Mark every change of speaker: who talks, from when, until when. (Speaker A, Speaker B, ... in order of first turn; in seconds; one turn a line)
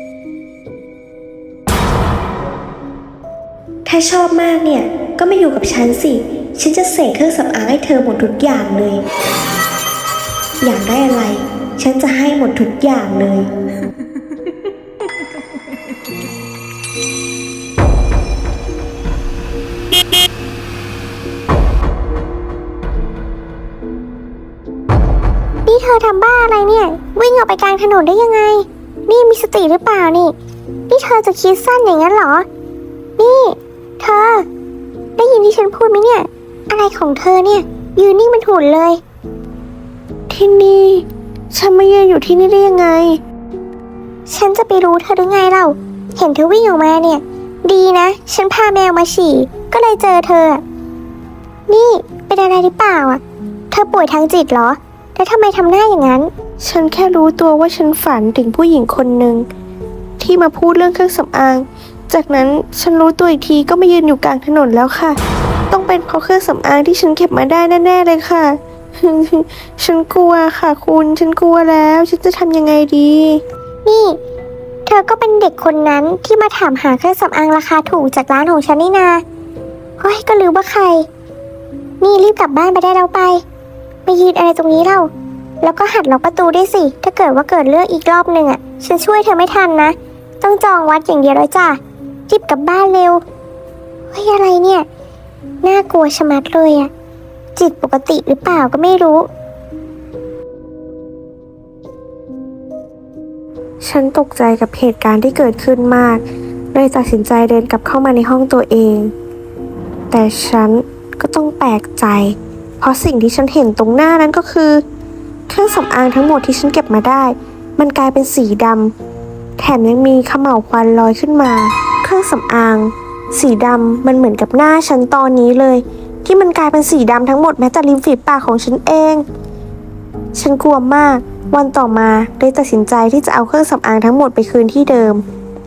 Speaker A: 3.8-9.0
Speaker A: 10.6-13.5
Speaker B: 25.6-30.3
Speaker B: 30.9-32.5
Speaker B: 33.2-34.4
Speaker B: 35.2-39.0
Speaker A: 40.3-43.2
Speaker B: 44.3-50.6
Speaker B: 51.7-56.3
Speaker A: 56.6-59.5
Speaker A: 60.2-65.2
Speaker A: 65.7-73.4
Speaker B: 73.8-74.2
Speaker B: 74.8-79.2
Speaker B: 80.0-81.1
Speaker B: 82.0-83.4
Speaker B: 84.0-85.1
Speaker B: 85.6-93.2
Speaker B: 94.1-94.8
Speaker B: 95.6-96.9
Speaker B: 97.5-99.3
Speaker A: 103.8-106.2
Speaker A: 106.7-109.1
Speaker A: 110.1-114.8
Speaker A: 115.5-118.9
Speaker A: 119.6-129.2
Speaker A: 130.3-135.2